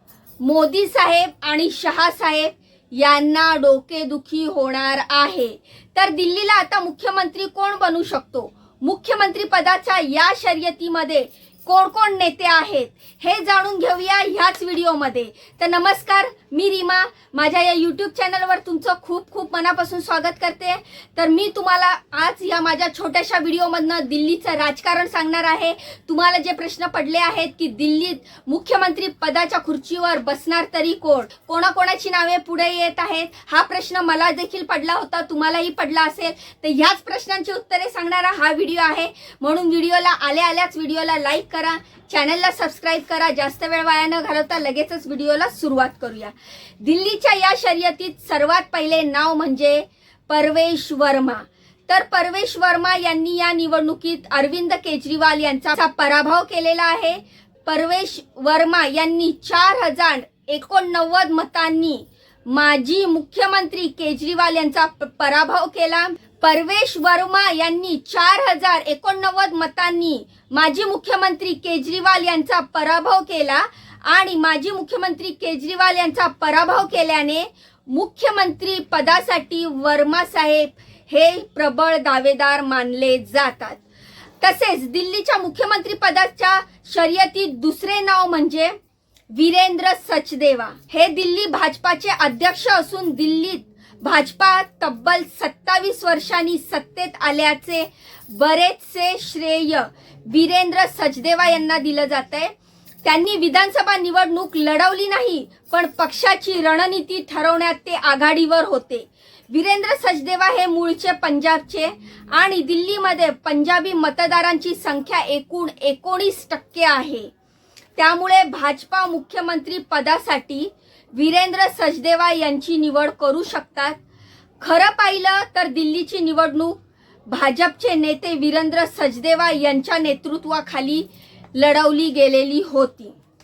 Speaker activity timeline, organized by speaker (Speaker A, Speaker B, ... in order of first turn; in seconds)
Speaker A: 0.4-83.8, 84.4-88.7, 89.3-102.5, 103.0-117.3, 118.0-124.0, 124.6-126.8, 127.3-133.2